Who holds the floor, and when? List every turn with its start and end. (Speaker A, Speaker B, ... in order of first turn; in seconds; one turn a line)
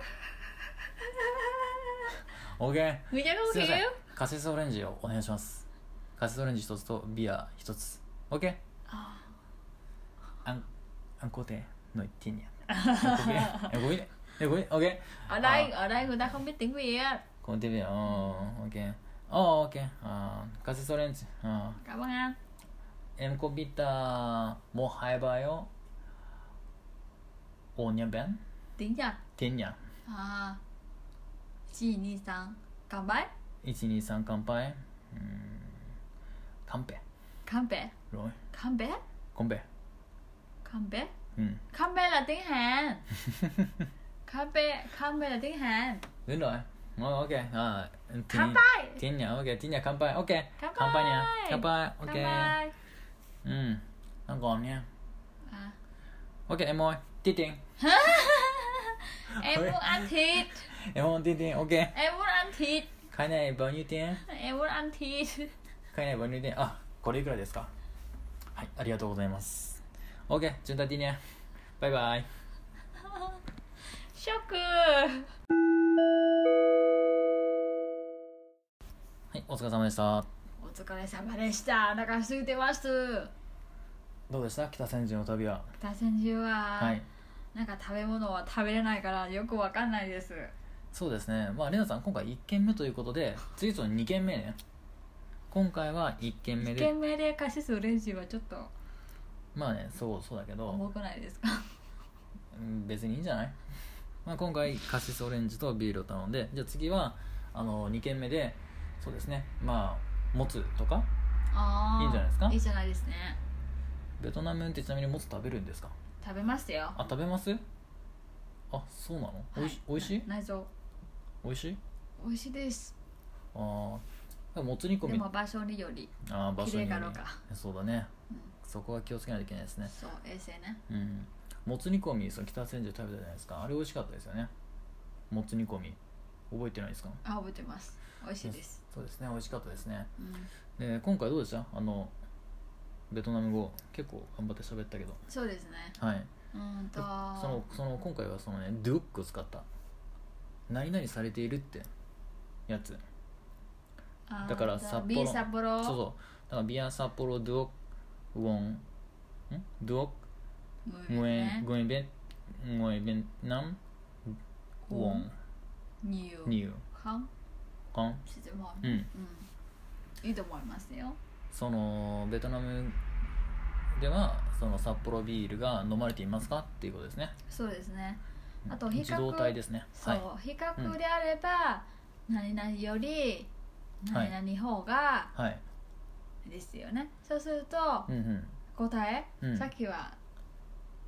Speaker A: 0.8-2.2
Speaker B: 2.3-8.6
Speaker A: 3.1-4.0
Speaker A: 8.9-9.3
Speaker B: 11.2-15.9
Speaker A: 12.7-13.7
Speaker A: 15.3-17.2
Speaker B: 17.4-21.8
Speaker A: 21.8-22.4
Speaker B: 23.2-25.7
Speaker B: 27.8-28.4
Speaker A: 28.8-29.2
Speaker B: 29.4-29.8
Speaker A: 30.1-30.6
Speaker A: 31.7-33.3
Speaker B: 33.6-35.9
Speaker B: 36.6-37.0
Speaker A: 37.5-37.9
Speaker B: 38.1-38.4
Speaker A: 38.5-39.0
Speaker B: 39.3-39.6
Speaker A: 40.6-41.1
Speaker B: 41.4-41.6
Speaker A: 41.7-43.1
Speaker A: 44.2-46.1
Speaker B: 46.3-52.6
Speaker A: 48.3-49.0
Speaker A: 50.6-52.7
Speaker B: 53.4-54.9
Speaker A: 55.5-55.8
Speaker B: 56.5-57.6
Speaker A: 57.8-60.7
Speaker B: 59.3-61.9
Speaker A: 61.9-62.9
Speaker B: 63.1-64.2
Speaker A: 64.2-65.5
Speaker B: 65.9-67.7
Speaker B: 68.5-71.2
Speaker B: 71.8-72.3
Speaker A: 73.9-75.3
Speaker B: 79.3-80.3
Speaker A: 80.6-83.3
Speaker B: 84.3-85.7
Speaker A: 85.8-87.0
Speaker B: 86.8-87.0
Speaker A: 87.5-90.5
Speaker B: 90.9-94.6
Speaker B: 95.5-96.9
Speaker A: 96.6-98.7
Speaker B: 99.5-100.8
Speaker A: 100.7-101.7
Speaker B: 102.5-103.6
Speaker B: 104.2-111.1
Speaker A: 111.5-113.4
Speaker B: 112.0-112.6
Speaker B: 114.2-115.9
Speaker A: 116.2-117.0
Speaker B: 116.9-117.6
Speaker B: 118.7-120.3
Speaker A: 119.5-120.7
Speaker B: 121.4-121.8
Speaker A: 122.2-122.9
Speaker B: 123.5-125.3
Speaker A: 125.0-127.4
Speaker B: 126.2-128.1
Speaker B: 128.6-129.9
Speaker A: 129.9-130.8
Speaker B: 130.9-134.5
Speaker B: 135.3-136.0
Speaker B: 136.5-137.2
Speaker A: 137.2-138.8
Speaker B: 138.4-140.1
Speaker A: 140.2-140.5
Speaker B: 140.8-142.1
Speaker B: 143.1-145.2
Speaker A: 145.3-145.9
Speaker B: 146.0-146.3
Speaker A: 146.5-147.6
Speaker B: 147.0-149.7
Speaker B: 150.7-151.9
Speaker B: 152.7-153.0
Speaker A: 154.3-156.0
Speaker B: 154.4-157.7
Speaker B: 158.3-158.8
Speaker B: 159.5-160.2
Speaker A: 160.8-161.7
Speaker B: 161.1-163.8
Speaker B: 164.9-165.3
Speaker A: 164.9-165.3
Speaker A: 166.0-167.3
Speaker B: 166.4-166.8
Speaker B: 167.9-168.2
Speaker A: 168.2-169.5
Speaker A: 170.2-171.2
Speaker B: 171.5-173.0
Speaker B: 173.9-177.3
Speaker A: 177.5-183.5
Speaker B: 178.7-180.2
Speaker A: 184.0-185.3
Speaker B: 185.3-185.6
Speaker A: 186.4-188.1
Speaker B: 188.1-188.5
Speaker A: 188.7-190.2
Speaker B: 189.4-189.7